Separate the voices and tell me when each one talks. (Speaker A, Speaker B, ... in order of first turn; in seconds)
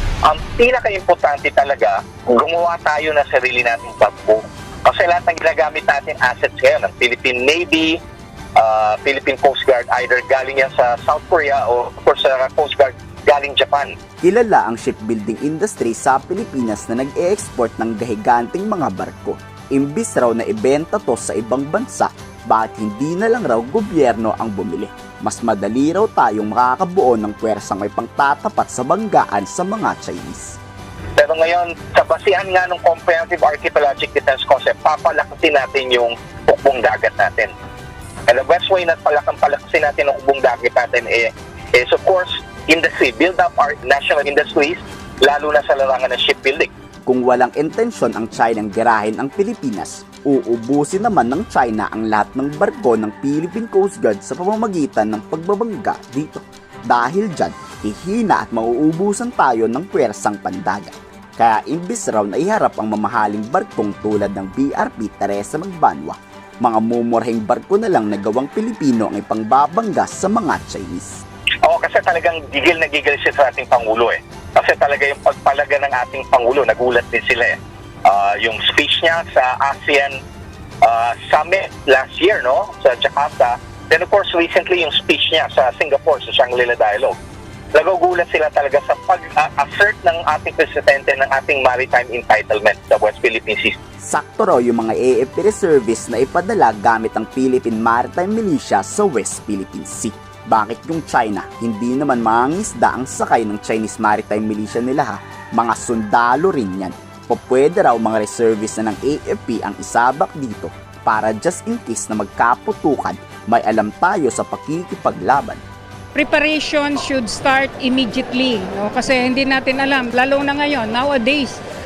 Speaker A: 0.2-8.0, 8.6-13.9, 31.2-37.5, 38.3-46.7, 71.6-80.2, 80.8-87.2, 87.7-93.8
Speaker B: 14.2-30.6, 47.1-71.2, 94.0-115.6
Speaker C: 116.1-121.6